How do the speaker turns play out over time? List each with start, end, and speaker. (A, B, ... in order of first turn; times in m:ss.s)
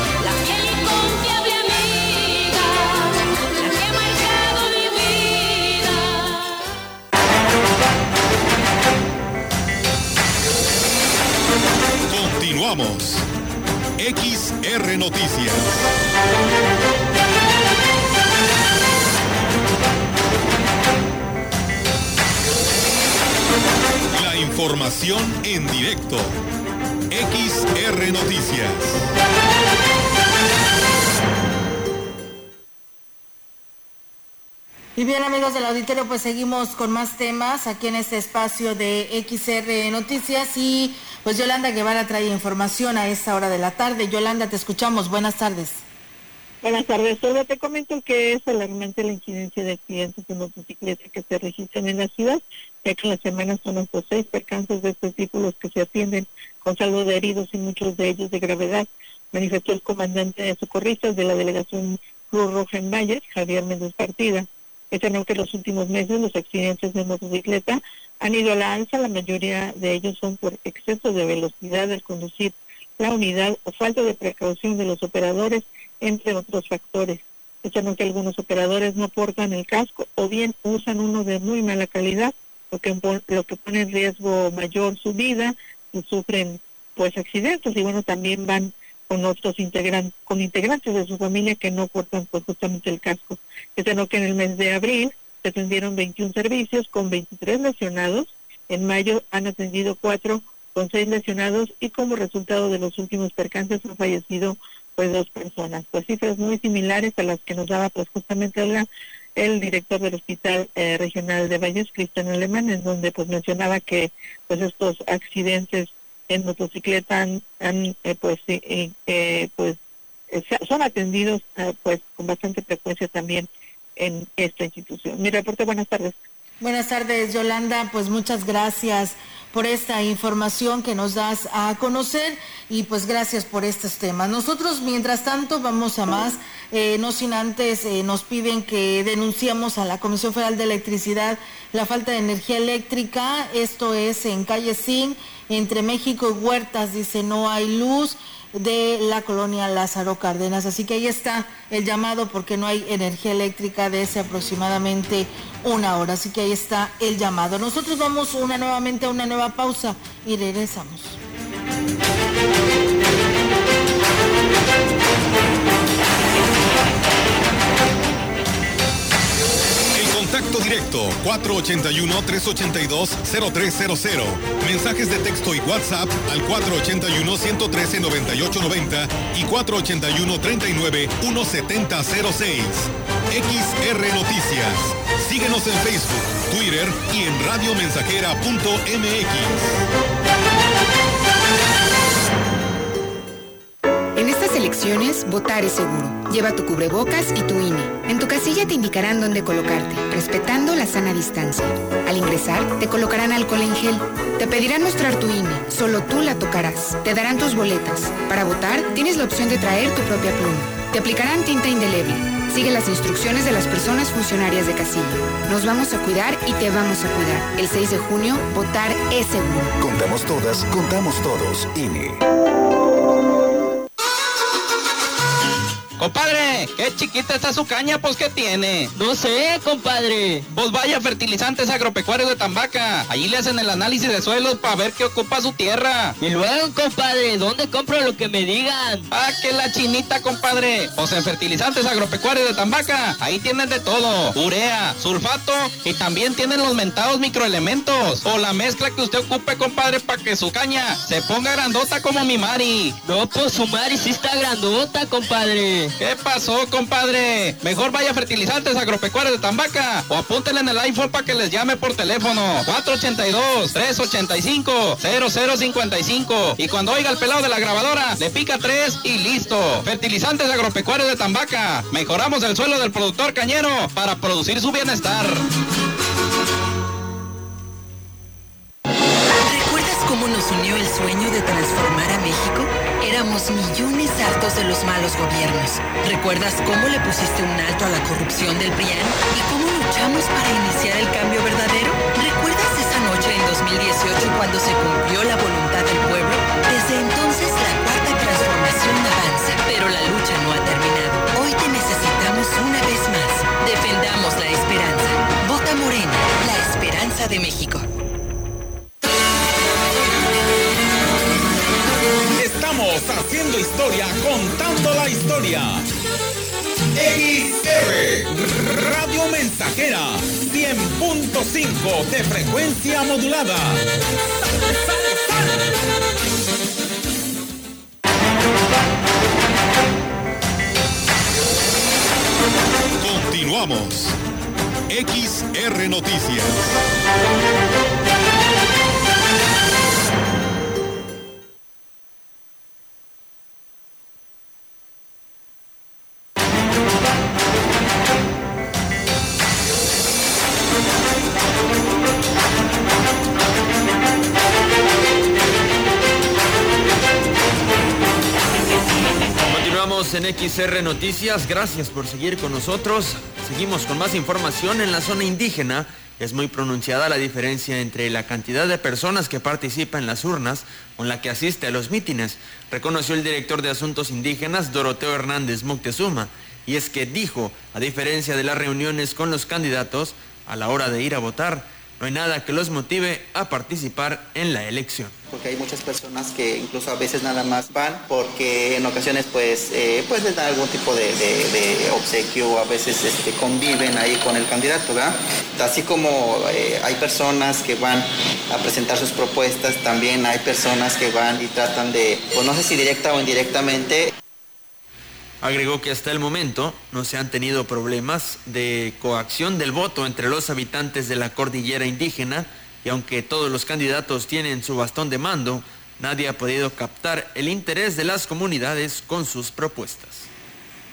0:00.2-0:06.4 A
0:12.1-0:13.2 B
0:14.0-0:15.9 B
0:24.1-0:26.4 B
0:27.1-0:29.1 B
0:35.0-0:45.8 C
0:46.6-1:59.8 D
2:00.3-2:06.2 D
2:06.6-2:41.2 C
2:49.9-3:09.8 B
3:14.2-3:39.7 E
3:39.8-3:42.2 F
3:46.0-3:48.9 G
3:48.9-3:50.5 A
3:50.5-3:56.1 G
3:56.2-3:59.1 A
3:59.1-4:13.0 G
4:13.0-4:15.9 A
4:16.0-4:35.4 G
4:39.3-5:07.9 H
5:12.3-5:15.8 I
5:16.9-5:23.8 I
5:33.0-5:34.2 B
5:34.9-5:36.8 B
5:59.5-6:25.1 J
6:25.3-6:44.1 K
6:45.4-7:00.3 J